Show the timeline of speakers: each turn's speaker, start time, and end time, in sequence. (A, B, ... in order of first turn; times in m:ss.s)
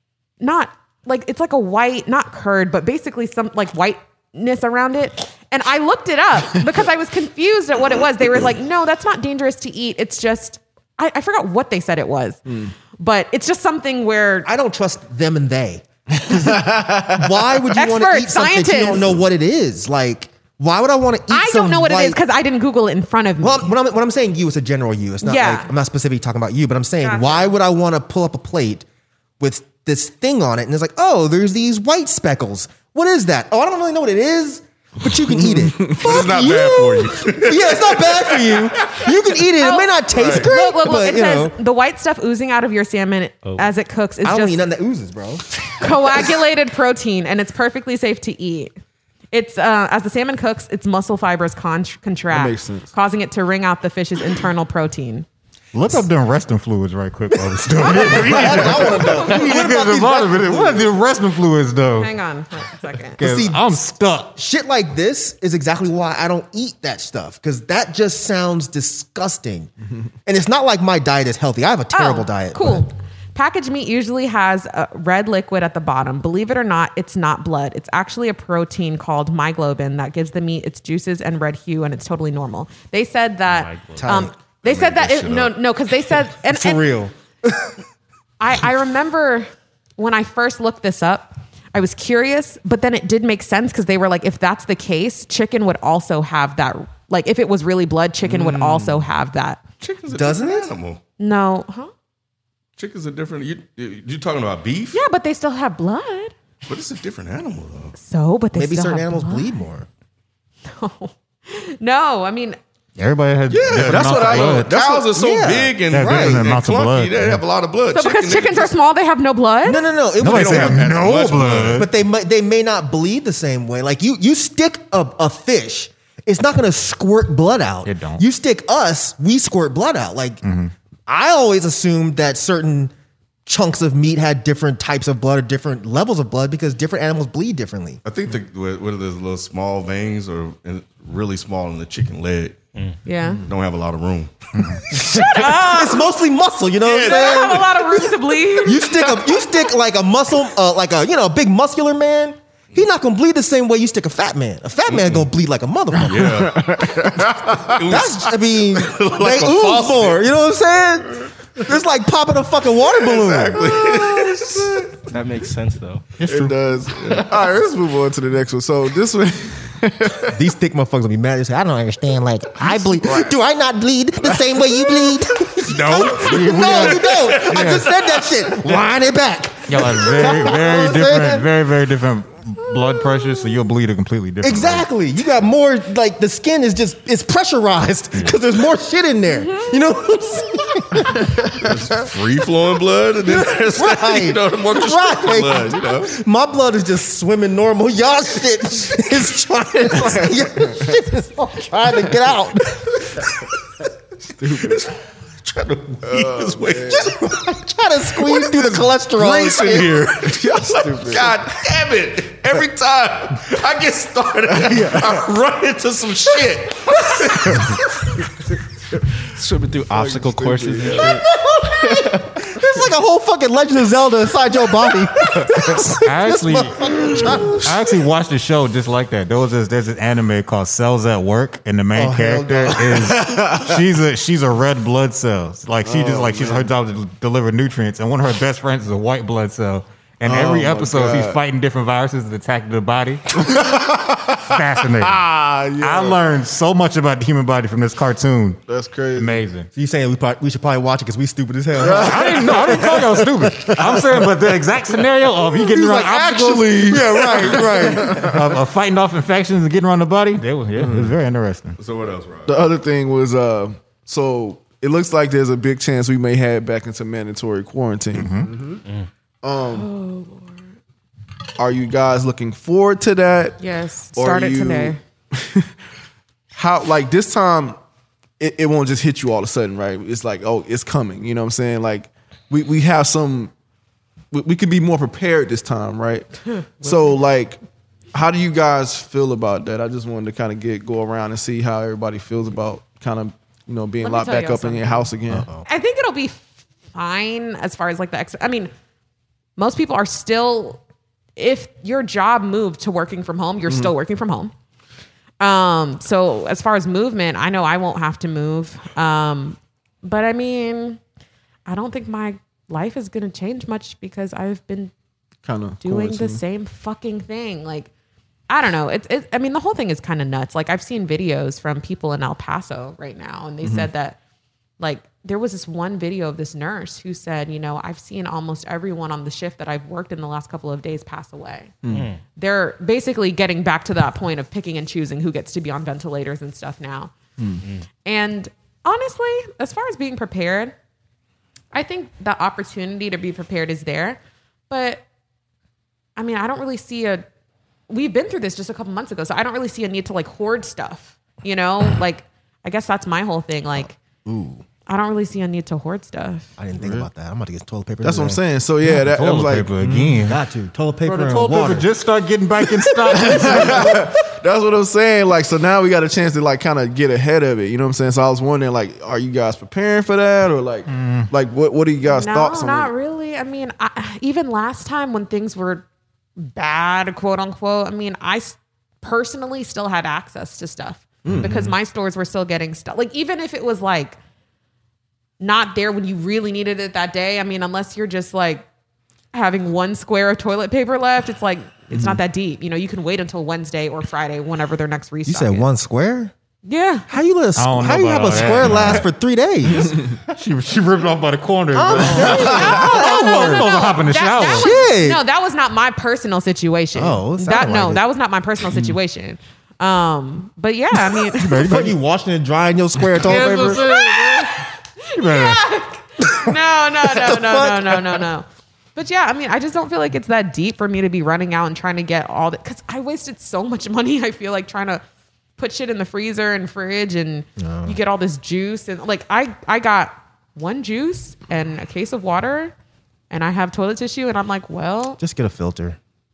0:00.4-0:14.5 A
0:12.5-0:12.7 B
0:14.4-0:22.2 C
0:16.3-0:17.3 B
0:17.8-0:19.1 A
0:21.3-0:23.7 A
0:23.4-0:28.8 C
0:25.2-0:25.7 A
0:27.0-0:27.6 A
0:29.4-0:41.6 C
0:35.5-0:36.0 B
0:36.0-0:39.0 D
0:39.6-0:44.6 A
0:40.1-0:40.5 D
0:43.4-0:43.7 E
0:44.2-0:45.4 C
0:45.7-0:48.7 A
0:49.3-0:55.3 A
0:52.3-0:52.9 B
0:55.7-1:02.1 F
0:57.9-1:00.9 C
0:58.1-0:59.5 A
1:02.0-1:03.2 A
1:03.2-1:04.3 F
1:03.2-1:03.7 C
1:04.4-1:09.7 C
1:10.3-1:12.9 C
1:11.9-1:26.8 A
1:23.5-1:24.1 E
1:24.0-1:24.3 C
1:24.5-1:25.6 D
1:26.4-1:27.8 C
1:28.4-1:39.6 A
1:38.2-1:39.0 D
1:39.8-1:41.0 D
1:40.1-1:40.7 C
1:41.2-1:41.9 A
1:42.8-1:45.0 D
1:44.9-1:46.3 A
1:46.7-1:48.0 D
1:48.0-1:49.6 A
1:48.6-1:49.9 C
1:50.6-1:52.6 A
1:53.0-1:54.7 F
1:53.5-1:55.2 B
1:53.5-1:58.7 D
1:55.1-1:56.5 C
1:55.9-1:57.4 F
1:57.9-1:59.8 A
1:59.6-2:01.0 C
2:00.2-2:01.9 F
2:00.2-2:01.9 D
2:01.7-2:10.4 C
2:07.8-2:08.2 F
2:10.4-2:10.7 F
2:11.1-2:12.9 C
2:13.5-2:18.0 C
2:18.0-2:22.6 D
2:23.0-2:23.5 A
2:23.4-2:24.3 D
2:24.9-2:28.1 C
2:25.0-2:26.1 A
2:26.8-2:27.7 D
2:27.0-2:29.4 A
2:28.6-2:36.4 C
2:34.9-2:35.3 D
2:36.0-2:37.1 D
2:36.2-2:37.7 B
2:37.6-2:40.2 D
2:37.8-2:43.6 C
2:42.9-2:45.0 D
2:43.8-2:44.8 B
2:45.1-2:46.1 E
2:46.2-2:46.6 F
2:46.2-2:50.4 B
2:46.9-2:47.3 D
2:50.3-3:01.5 C
2:52.9-2:53.3 B
2:55.6-2:58.3 D
2:56.2-2:57.6 F
2:59.7-3:04.9 F
3:04.4-3:11.3 C
3:11.6-3:16.1 D
3:13.3-3:23.0 C
3:24.3-3:24.8 B
3:24.5-3:27.2 D
3:26.1-3:27.1 B
3:26.9-3:30.0 C
3:28.2-3:37.8 D
3:30.2-3:31.4 B
3:34.5-3:35.1 B
3:39.4-3:41.2 B
3:39.4-3:41.3 E
3:40.1-3:41.2 D
3:41.0-3:47.6 C
3:45.3-3:45.7 B
3:46.0-4:05.3 F
3:51.9-3:53.1 C
3:55.8-3:56.7 B
4:00.2-4:01.4 B
4:03.4-4:04.1 B
4:04.9-4:06.2 B
4:05.8-4:08.6 F
4:08.7-4:09.3 B
4:09.1-4:09.7 F
4:09.8-4:13.2 C
4:11.8-4:13.2 B
4:12.0-4:16.9 F
4:13.7-4:14.3 B
4:15.8-4:18.3 C
4:15.9-4:18.4 B
4:17.5-4:21.8 F
4:20.8-4:21.1 C
4:21.8-4:22.6 D
4:22.5-4:28.8 B
4:28.1-4:28.5 F
4:29.4-4:29.9 B
4:29.7-4:30.6 A
4:31.6-4:33.6 B
4:33.6-4:35.0 A
4:34.1-4:35.7 B
4:36.5-4:37.8 B
4:38.4-4:43.5 B
4:44.3-4:46.3 B
4:46.8-4:47.6 B
4:46.8-4:47.1 A
4:48.1-4:55.6 B
4:54.0-4:58.7 A
4:55.3-4:55.7 C
4:59.6-5:00.8 A
5:01.4-5:04.5 A
5:05.4-5:11.0 A
5:11.7-5:14.9 A
5:15.4-5:16.4 B
5:15.8-5:17.9 A
5:18.5-5:24.2 A
5:23.6-5:23.9 B
5:24.8-5:31.7 A
5:31.8-5:32.1 B
5:31.9-5:32.2 E
5:32.3-5:37.1 A
5:38.0-5:40.8 A
5:41.7-5:45.0 A
5:46.2-5:47.2 A
5:47.9-5:54.0 A
5:54.2-5:54.7 C
5:54.9-5:56.5 A
5:56.6-5:58.4 C
5:56.8-5:57.1 B
5:58.0-6:00.2 B
5:58.8-6:00.4 F
6:00.2-6:01.9 C
6:01.0-6:04.1 F
6:03.1-6:12.9 B
6:10.9-6:11.3 F
6:12.0-6:15.8 A
6:16.4-6:24.2 A
6:21.2-6:21.8 B
6:25.4-6:28.7 A
6:29.3-6:35.7 A
6:31.9-6:32.2 B
6:35.3-6:36.3 C
6:36.7-6:37.1 A
6:37.1-6:40.0 C
6:37.6-6:39.1 F
6:40.3-6:44.7 F
6:41.7-6:43.7 C
6:42.1-6:51.6 A
6:44.5-6:45.2 C
6:47.0-6:48.0 C
6:51.4-6:52.0 F
6:51.4-6:53.9 C
6:53.2-6:54.6 F
6:53.7-7:05.0 A
6:55.1-6:55.6 F
6:56.5-6:58.3 C
7:05.6-7:12.7 A
7:07.6-7:08.0 C
7:13.3-7:15.2 A
7:15.2-7:16.0 C